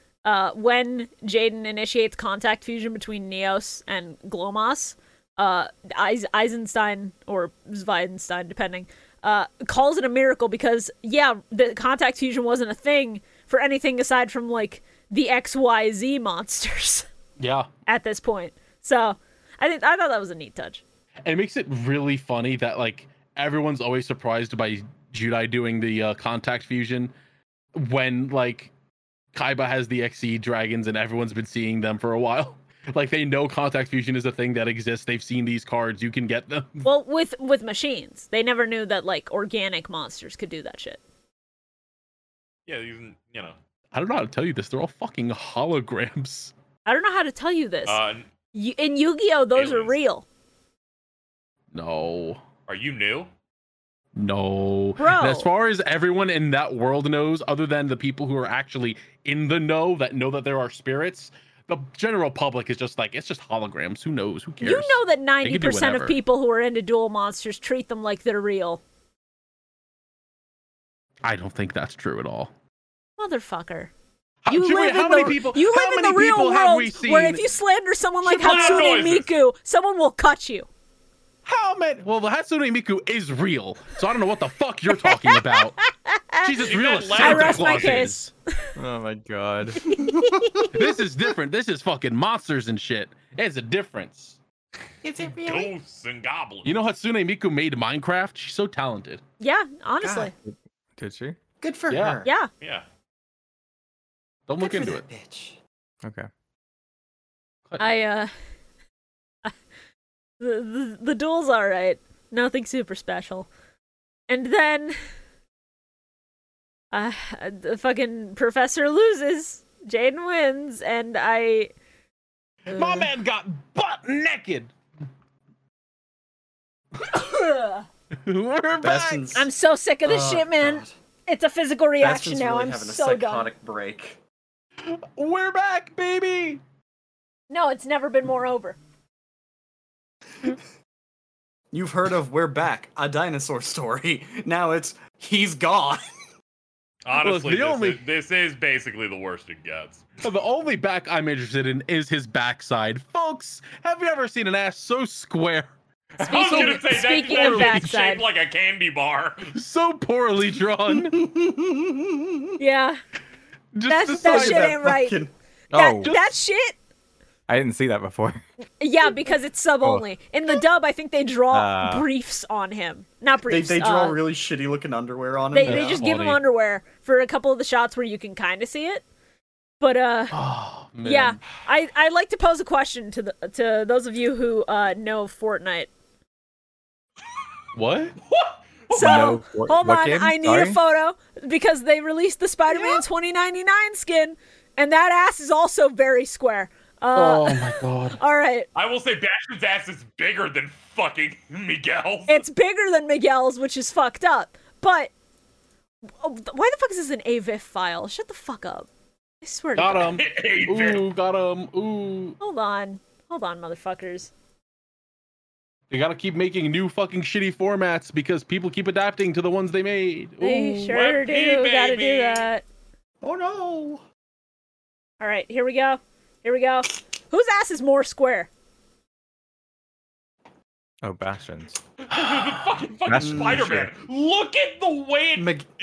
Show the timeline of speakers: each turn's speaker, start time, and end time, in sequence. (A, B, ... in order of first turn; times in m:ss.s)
0:00.2-0:17.1 A
0:17.4-0:17.7 B
0:17.9-0:20.8 A
0:21.2-0:27.1 B
0:27.7-0:28.7 B
0:29.3-0:36.8 B
0:36.8-0:41.0 A
0:42.7-0:43.6 C
0:43.9-0:46.5 B
0:46.8-0:48.0 A
0:47.8-0:48.2 C
0:48.5-0:50.2 A
0:49.6-0:49.9 C
0:51.7-0:52.4 B
0:52.7-0:53.3 C
0:54.1-1:06.2 B
0:55.0-0:55.5 A
1:04.6-1:08.8 A
1:11.2-1:12.5 B
1:13.2-1:13.9 A
1:14.4-1:17.5 B
1:14.5-1:20.7 A
1:18.2-1:19.3 C
1:18.5-1:18.8 B
1:21.4-1:25.8 B
1:24.9-1:28.3 A
1:26.4-1:28.3 B
1:26.6-1:28.1 C
1:28.8-1:30.0 D
1:29.8-1:30.7 A
1:30.0-1:30.7 E
1:30.7-1:34.4 B
1:35.0-1:35.7 E
1:35.4-1:36.7 C
1:36.6-1:39.2 B
1:39.4-1:40.3 A
1:40.0-1:40.3 E
1:40.4-1:41.4 D
1:41.6-1:42.3 E
1:41.9-1:42.2 B
1:42.2-1:42.5 A
1:44.5-1:45.0 B
1:44.6-1:45.6 E
1:46.0-1:46.3 D
1:47.8-1:48.3 A
1:50.4-1:53.5 A
1:54.3-1:55.0 A
1:56.9-2:01.7 A
2:02.7-2:03.1 A
2:02.7-2:04.7 B
2:07.0-2:07.9 A
2:08.2-2:09.3 B
2:08.8-2:09.5 E
2:09.3-2:13.5 A
2:10.0-2:10.9 E
2:12.0-2:14.2 E
2:14.8-2:16.6 B
2:17.5-2:18.8 A
2:21.7-2:26.0 E
2:27.0-2:30.2 C
2:27.2-2:28.0 B
2:30.2-2:35.7 B
2:36.2-2:39.5 C
2:36.2-2:38.2 A
2:36.3-2:37.9 B
2:39.5-2:41.2 B
2:40.9-2:42.5 E
2:42.6-2:43.0 A
2:43.7-2:44.8 B
2:43.9-2:45.2 A
2:44.2-2:45.3 E
2:45.7-2:46.1 D
2:45.7-2:46.7 A
2:46.0-2:46.3 B
2:47.5-2:48.4 D
2:48.8-2:54.2 A
2:51.5-2:52.1 D
2:53.5-2:56.0 E
2:55.5-2:59.0 A
2:55.6-2:56.4 B
2:59.8-3:00.4 A
3:00.3-3:01.4 B
3:01.0-3:05.9 A
3:07.7-3:08.2 B
3:08.2-3:09.3 C
3:08.9-3:18.7 A
3:08.9-3:10.8 D
3:17.1-3:18.2 B
3:18.7-3:22.4 C
3:22.3-3:25.1 A
3:26.2-3:28.9 A
3:29.4-3:30.2 A
3:29.8-3:32.4 B
3:30.2-3:31.0 C
3:32.4-3:34.3 A
3:35.9-3:41.0 B
3:40.4-3:42.6 A
3:40.9-3:42.5 C
3:43.2-3:44.0 E
3:45.2-3:48.5 A
3:51.0-3:51.8 D
3:52.0-3:55.5 C
3:53.0-3:53.9 D
3:53.2-3:53.8 E
3:55.4-3:55.7 E